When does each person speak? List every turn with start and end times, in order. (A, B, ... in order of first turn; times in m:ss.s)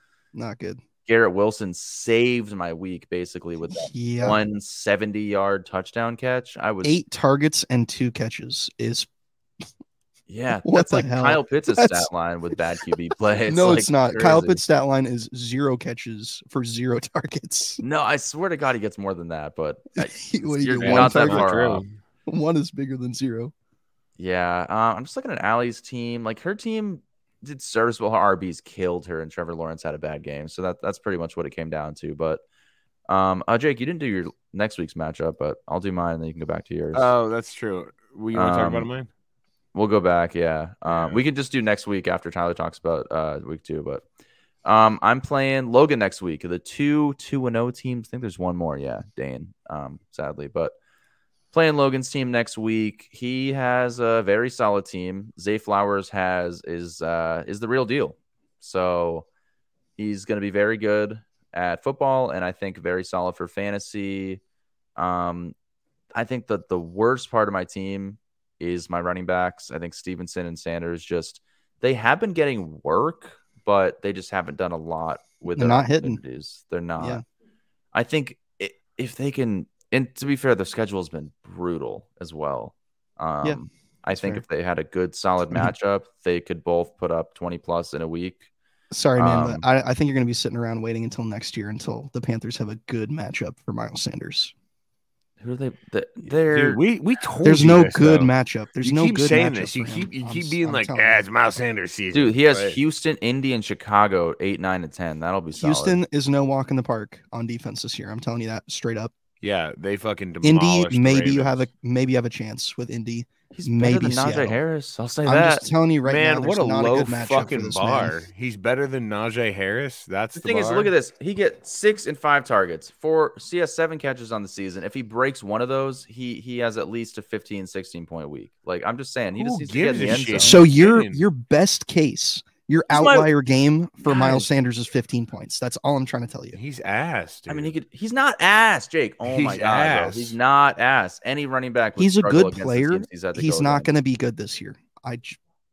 0:00.3-0:00.8 A
0:01.0-0:07.0 B
0:03.7-0:04.4 A
0:06.8-0:09.1 A
0:10.3-0:14.6 B
0:10.6-0:12.1 A
0:13.5-0:17.8 A
0:17.8-0:21.8 B
0:20.0-0:21.5 A
0:20.8-0:21.9 C
0:22.3-0:23.5 A
0:24.2-0:32.4 B
0:33.1-0:37.1 B
0:36.9-0:39.1 C
0:38.3-0:38.9 B
0:39.7-0:44.0 B
0:40.8-0:41.2 C
0:44.6-0:50.7 B
0:51.5-0:59.2 B
1:00.0-1:04.4 B
1:05.0-1:05.5 B
1:06.1-1:17.2 B
1:15.5-1:16.2 A
1:17.9-1:28.5 B
1:24.1-1:24.4 A
1:28.9-1:34.5 A
1:29.2-1:29.6 B
1:35.4-1:36.8 B
1:36.5-1:42.8 C
1:37.4-1:41.2 A
1:42.1-1:46.0 B
1:45.6-1:49.1 A
1:49.4-1:51.7 C
1:50.4-1:54.6 A
1:53.5-1:55.7 B
1:55.2-1:58.2 A
1:56.0-2:00.9 C
2:00.3-2:10.6 B
2:09.3-2:11.2 C
2:10.4-2:16.6 A
2:12.9-2:13.3 B
2:14.0-2:14.4 B
2:16.5-2:17.7 C
2:17.5-2:23.9 B
2:19.2-2:20.4 C
2:22.0-2:25.4 A